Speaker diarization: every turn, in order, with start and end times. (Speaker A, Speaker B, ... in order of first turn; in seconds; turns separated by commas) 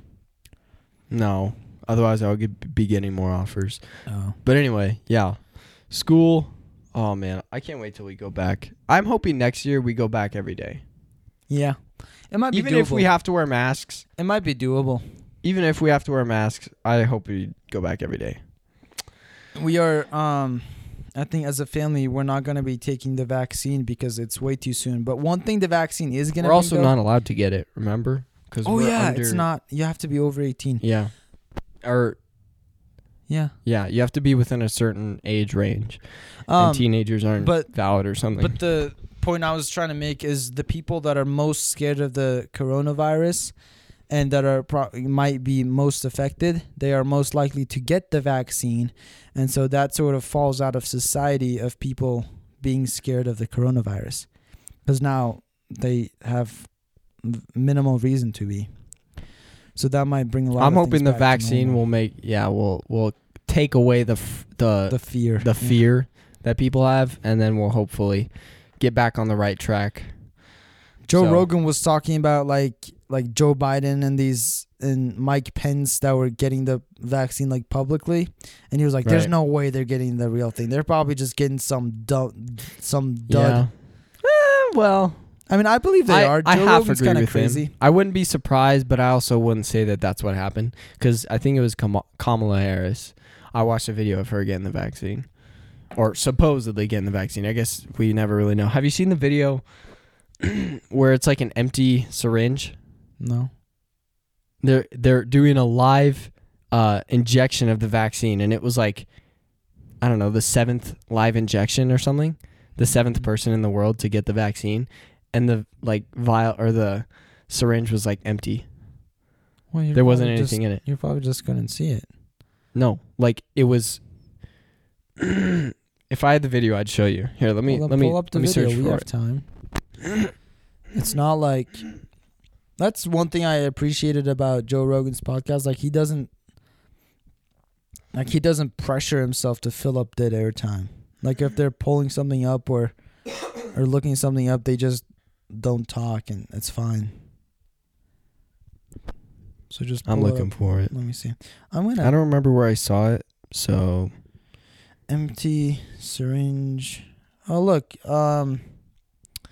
Speaker A: 1.1-10.8, Speaker B: 4.1-4.4, Speaker B: 11.5-13.1, Speaker A: 12.5-14.1, Speaker B: 14.2-15.0, Speaker A: 15.4-18.4, Speaker B: 19.6-26.9, Speaker A: 26.4-29.4, Speaker B: 28.6-30.8, Speaker A: 30.8-32.2, Speaker B: 33.3-33.5, Speaker A: 33.6-38.6, Speaker B: 36.5-43.5, Speaker B: 44.1-54.3, Speaker B: 54.8-61.8, Speaker A: 60.6-70.3, Speaker B: 64.9-65.8, Speaker B: 71.1-83.7, Speaker A: 71.1-71.5, Speaker A: 79.0-79.3, Speaker A: 83.3-85.3, Speaker B: 85.5-87.7, Speaker A: 86.1-99.8, Speaker A: 100.4-102.8, Speaker B: 103.2-103.5, Speaker A: 104.6-118.7, Speaker B: 119.7-122.1, Speaker A: 119.9-120.8, Speaker A: 122.7-124.0, Speaker A: 125.2-129.1, Speaker B: 127.7-129.4, Speaker B: 130.9-131.9, Speaker B: 132.8-136.3, Speaker B: 138.1-142.9, Speaker B: 143.7-147.2, Speaker B: 149.7-152.1, Speaker A: 150.1-150.9, Speaker A: 152.0-154.1, Speaker B: 155.1-158.7